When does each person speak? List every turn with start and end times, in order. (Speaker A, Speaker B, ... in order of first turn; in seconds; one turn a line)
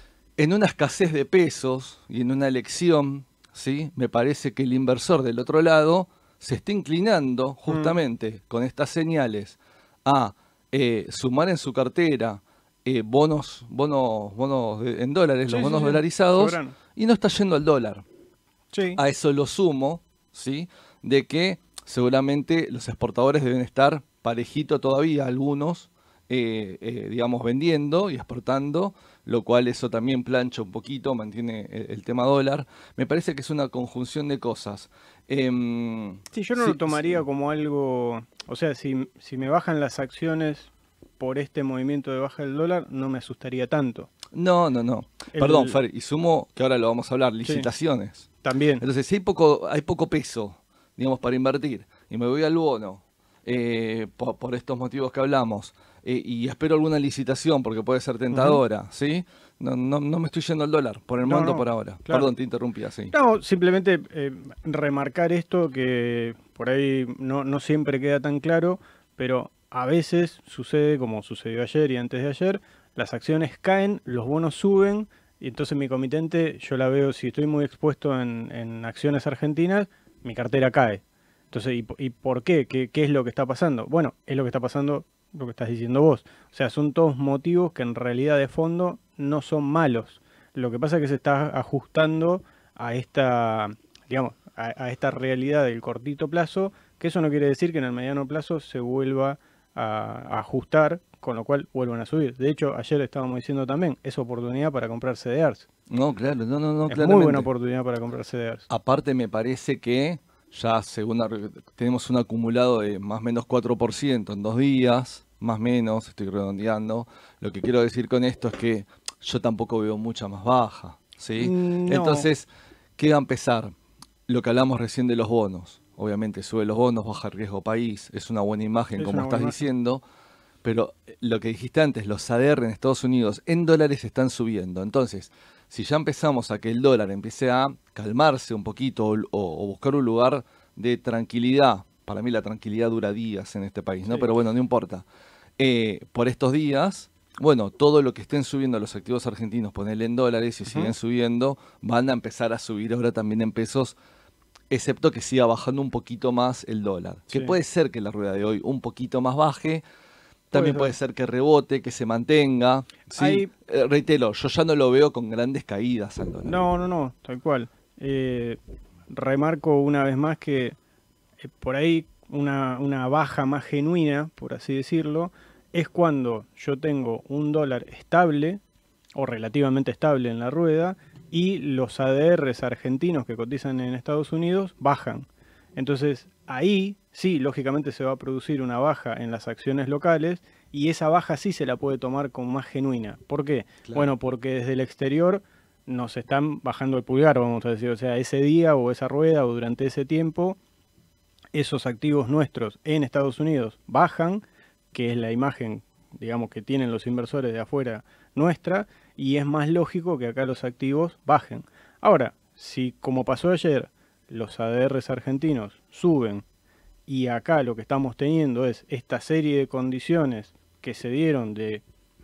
Speaker A: 0.4-18.0
Speaker B: 7.7-8.0
Speaker B: 15.5-16.7
Speaker B: 18.7-19.0
Speaker A: 18.9-37.2
Speaker B: 36.3-44.1
Speaker A: 44.3-63.1
Speaker B: 45.3-45.8
Speaker B: 48.4-48.8
Speaker B: 58.3-58.6
Speaker B: 61.2-62.3
Speaker B: 63.1-105.7
Speaker A: 105.9-107.5
Speaker B: 106.9-108.7
Speaker A: 108.7-122.5
Speaker B: 121.4-122.3
Speaker A: 123.0-123.7
Speaker A: 124.3-130.0
Speaker B: 129.0-129.6
Speaker A: 130.6-145.0
Speaker B: 144.1-144.3
Speaker A: 145.6-153.9
Speaker B: 150.7-150.9
Speaker A: 154.7-159.8
Speaker A: 160.5-166.6
Speaker B: 160.5-160.9
Speaker B: 163.1-163.5
Speaker B: 166.4-168.6
Speaker B: 169.1-170.8
Speaker B: 171.4-178.6
Speaker B: 179.2-200.6
Speaker A: 193.8-194.1
Speaker B: 201.5-216.4
Speaker B: 217.1-221.8